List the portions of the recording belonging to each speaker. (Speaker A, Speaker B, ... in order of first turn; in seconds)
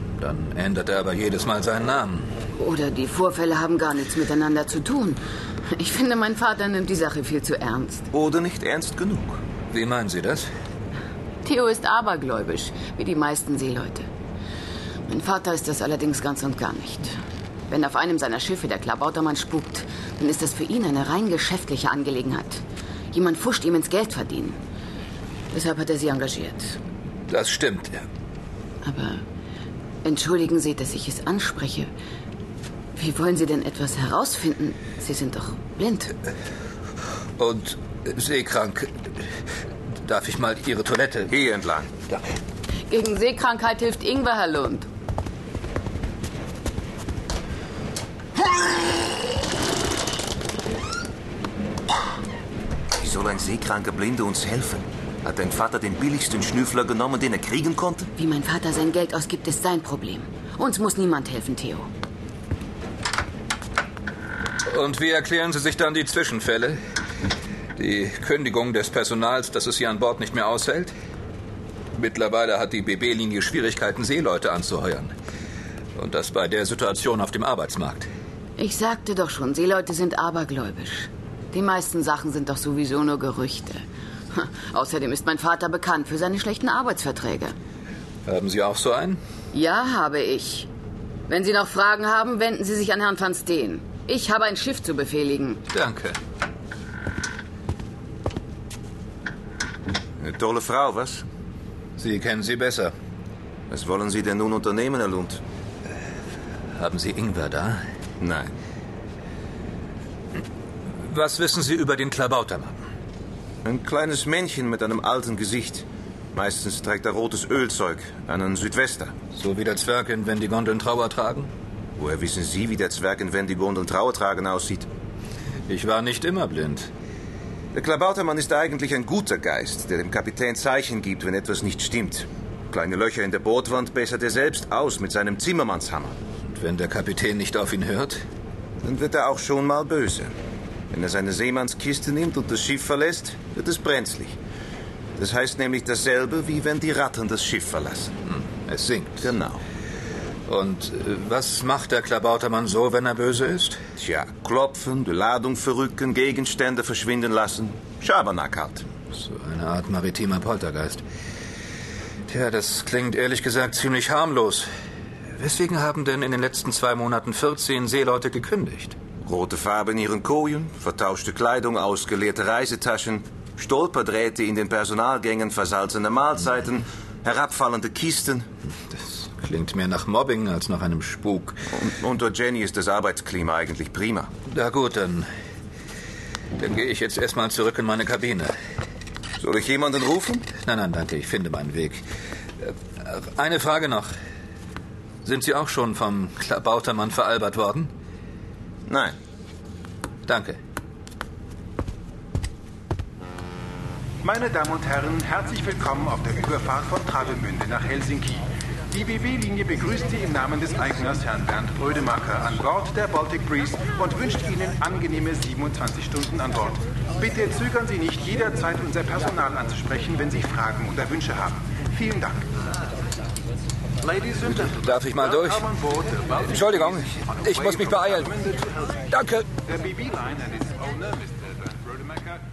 Speaker A: 0.2-2.3, 9.7-10.5, 27.3-28.0, 37.4-39.2, 40.0-41.3, 64.7-66.8, 67.8-70.9, 72.0-75.1, 76.0-78.1, 88.3-89.2, 95.7-96.2, 102.0-102.9, 106.8-107.8, 111.0-112.8, 119.3-121.5, 125.7-126.9, 136.5-138.2, 148.3-149.3, 150.5-153.8, 159.1-161.0, 162.3-164.7, 165.4-168.9, 178.9-181.6, 184.5-185.3, 186.6-188.5, 190.6-192.0, 192.6-194.1, 195.2-197.9, 200.3-200.6, 224.3-228.6, 229.1-229.5
Speaker B: 2.5-8.1, 11.4-14.1, 15.1-17.1, 17.7-24.6, 25.5-26.8, 28.8-29.2, 30.0-31.9, 33.0-36.1, 42.9-44.9, 58.2-61.9, 78.6-87.5, 89.5-90.7, 91.3-95.6
Speaker C: 8.1-9.4, 41.3-41.9, 53.0-58.1, 100.2-101.2, 103.7-105.4, 108.2-108.5, 113.6-119.1, 122.0-124.9, 127.7-136.2, 138.8-140.3, 140.9-144.4, 145.2-148.1, 149.2-149.6, 154.0-158.9, 169.2-178.5, 181.8-184.3, 189.4-190.5, 198.9-199.2
Speaker D: 204.3-208.4, 208.9-216.7, 217.2-222.4, 230.1-231.1